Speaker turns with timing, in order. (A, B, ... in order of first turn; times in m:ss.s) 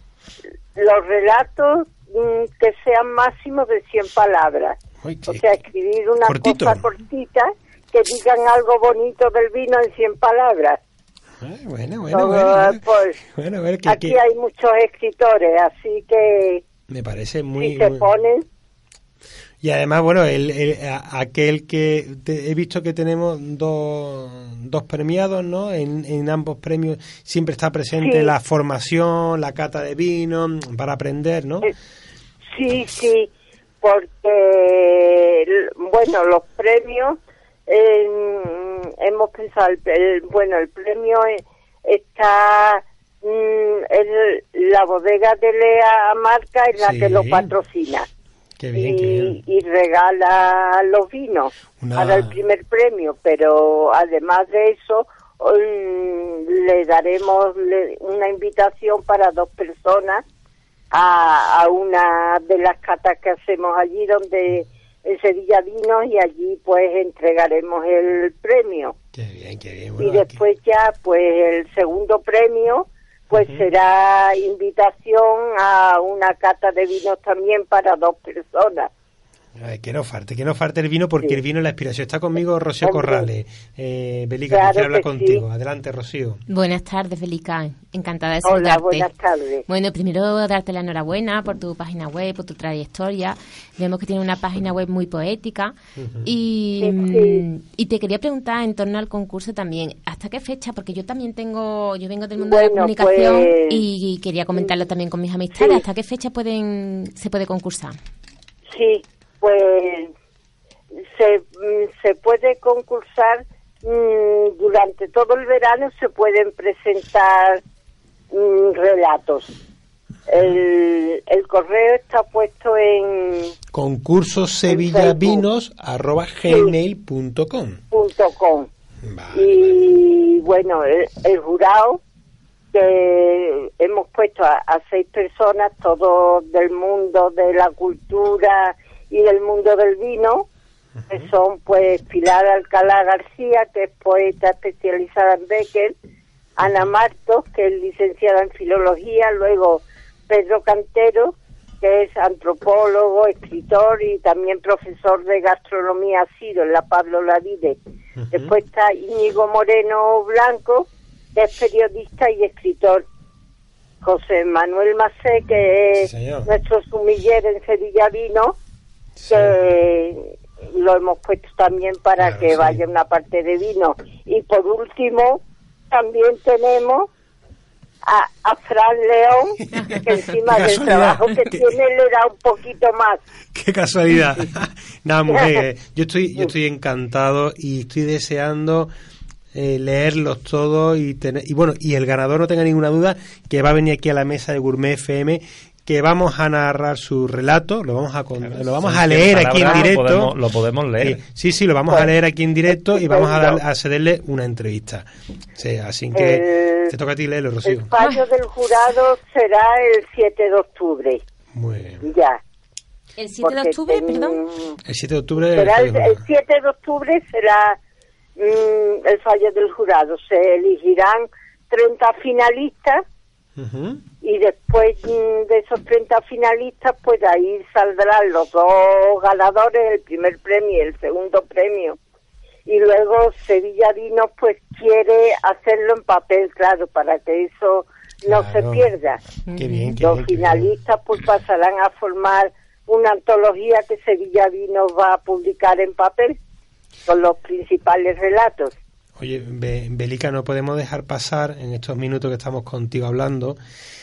0:00.8-0:10.8 A
0:05.0-0:05.5 B
0:06.2-0:06.9 B
0:11.4-0:14.2 B
0:12.1-0:13.2 A
0:13.8-0:16.6 A
0:16.9-0:18.1 B
0:17.6-0:18.4 A
0:19.6-0:31.7 B
0:28.0-0:28.3 A
0:32.5-0:33.3 A
0:33.8-0:48.1 A
0:46.8-0:47.5 B
0:48.6-0:49.4 B
0:48.7-1:00.2 A
0:51.8-0:52.4 B
1:00.9-1:09.0 A
1:09.1-1:10.4 B
1:10.0-1:18.9 A
1:13.3-1:13.7 B
1:19.6-1:26.4 B
1:22.8-1:23.3 A
1:24.5-1:25.4 A
1:26.5-1:29.1 C
1:28.4-1:29.6 A
1:29.7-1:48.0 C
1:36.0-1:36.3 B
1:36.8-1:37.4 A
1:42.4-1:43.8 A
1:45.6-1:45.8 A
1:48.7-1:50.1 A
1:51.0-1:57.6 A
1:58.3-1:59.5 A
2:00.3-2:03.5 A
2:03.7-2:07.8 B
2:04.7-2:05.4 A
2:06.4-2:06.7 A
2:07.9-2:08.7 A
2:09.0-2:09.9 B
2:09.3-2:12.0 A
2:12.7-2:20.5 A
2:21.1-2:26.0 A
2:26.6-2:37.8 A
2:38.2-2:38.6 B
2:38.3-2:43.0 A
2:44.0-2:48.6 A
2:46.0-2:46.5 B
2:49.2-2:49.6 B
2:49.3-2:57.1 A
2:52.2-2:52.8 B
2:58.0-3:03.2 A
2:59.7-3:01.7 B
3:03.5-3:08.9 B
3:05.3-3:05.6 A
3:09.5-3:20.4 B
3:18.8-3:21.2 D
3:21.0-3:27.9 B
3:22.7-3:23.6 A
3:26.1-3:26.9 A
3:27.6-3:31.2 A
3:31.5-3:32.1 B
3:32.0-3:32.4 A
3:33.2-3:34.4 C
3:33.4-3:34.8 A
3:34.8-3:36.2 B
3:35.4-3:37.8 A
3:38.4-3:43.0 A
3:43.6-3:44.0 B
3:44.2-3:52.0 A
3:52.7-3:59.2 A
3:58.3-3:58.9 B
3:59.5-4:00.0 C
3:59.5-4:00.7 B
4:00.0-4:06.4 A
4:07.1-4:08.7 A
4:09.2-4:13.6 B